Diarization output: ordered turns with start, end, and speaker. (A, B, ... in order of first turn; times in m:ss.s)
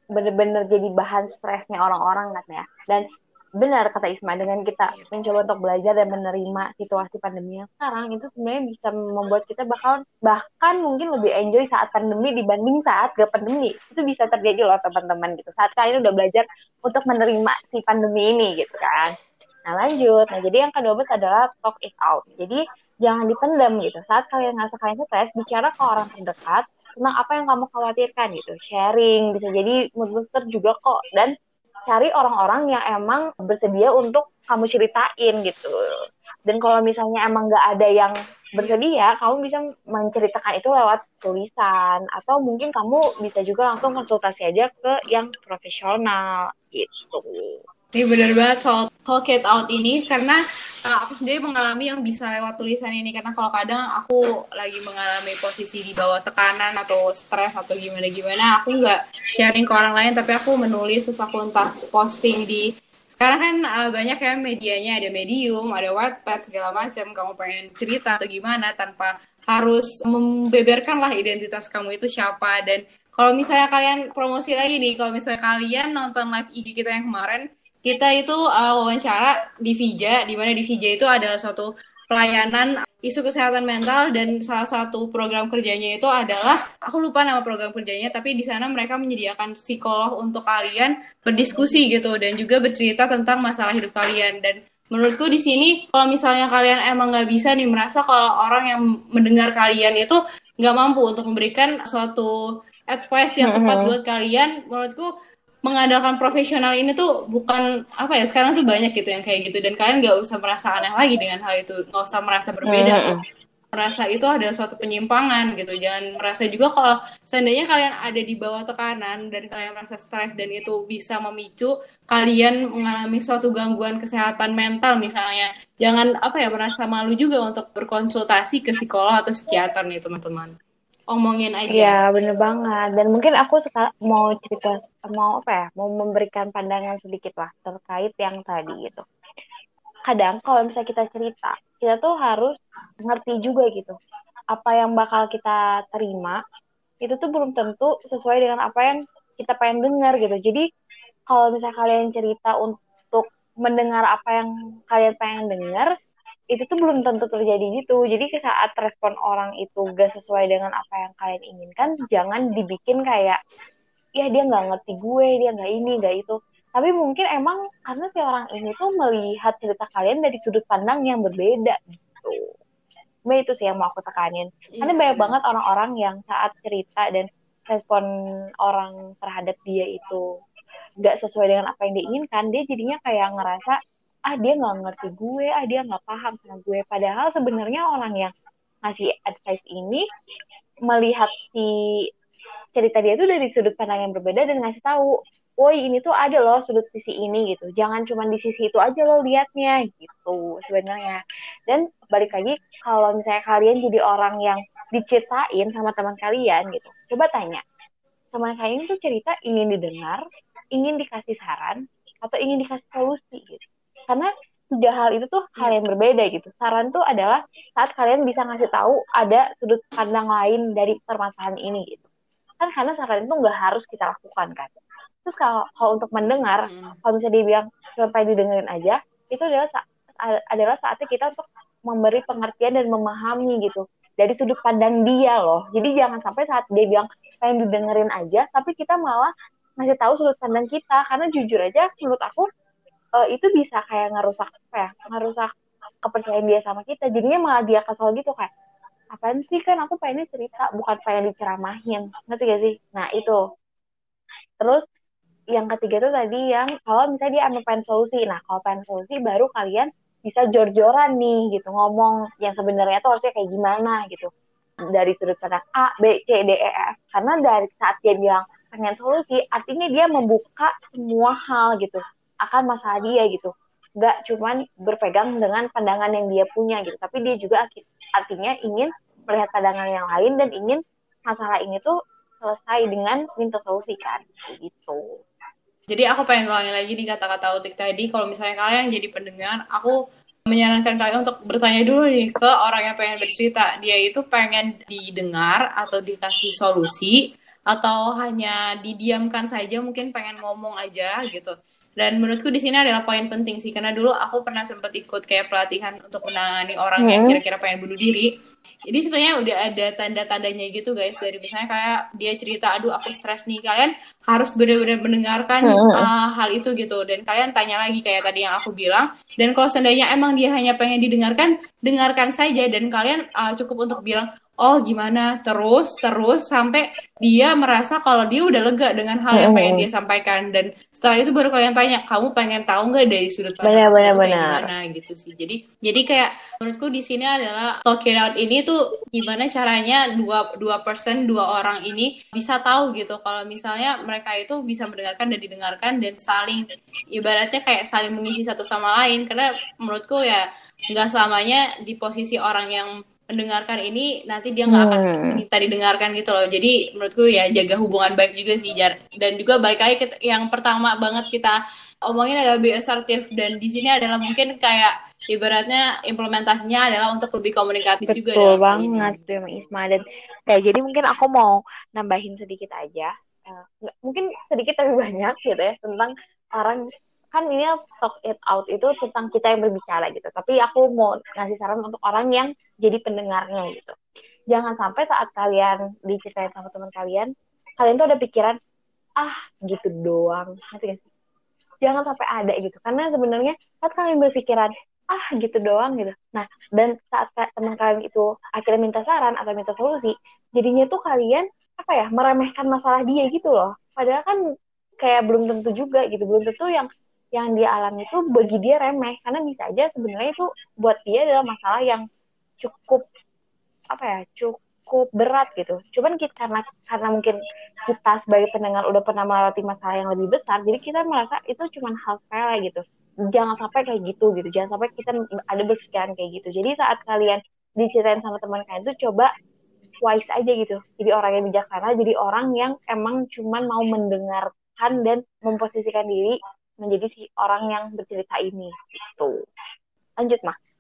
0:00.2-0:03.0 A
0:03.6-0:19.1 A
0:19.7-0:31.3 A
0:31.9-0:35.7 A
0:36.5-0:47.6 A
0:48.0-1:42.3 B
1:42.9-1:45.1 B
1:43.4-1:43.9 A
1:45.7-1:53.1 B
1:52.7-1:53.2 A
1:53.7-2:10.5 B
2:11.1-2:12.0 B
2:11.7-2:19.0 A
2:20.1-2:24.0 A
2:24.5-2:26.4 A
2:27.0-2:30.6 A
2:31.3-2:35.9 A
2:36.5-2:43.4 A
2:44.2-2:52.4 A
2:53.3-2:58.1 A
2:54.7-2:55.3 B
2:58.6-3:00.2 A
3:01.0-3:03.8 A
3:04.3-3:08.3 A
3:08.9-3:10.0 A
3:10.9-3:11.7 A
3:12.8-3:27.6 A
3:28.3-3:30.2 A
3:30.8-3:42.1 A
3:42.6-4:02.5 A
3:46.6-3:47.0 B
4:03.2-4:05.5 A
4:06.1-4:08.5 A
4:09.1-4:13.4 A
4:15.5-4:24.3 A
4:25.0-4:45.0 A
4:45.9-4:49.9 B
4:50.5-4:57.2 B
4:57.7-5:08.3 B
5:07.0-5:07.4 A
5:08.9-5:46.6 B
5:15.7-5:16.1 A
5:29.4-5:29.9 A
5:33.6-5:34.7 A
5:47.2-6:01.6 B
5:54.7-5:55.4 A
6:02.1-6:09.4 B
6:08.1-6:16.8 A
6:17.3-6:24.0 A
6:24.5-6:28.6 A
6:29.2-6:31.1 A
6:31.8-6:44.4 A
6:45.0-6:52.0 A
6:52.6-6:53.0 A
6:53.9-6:57.4 A
6:57.9-7:02.8 A
7:03.3-7:09.3 A
7:10.0-7:19.3 A
7:20.2-7:20.6 A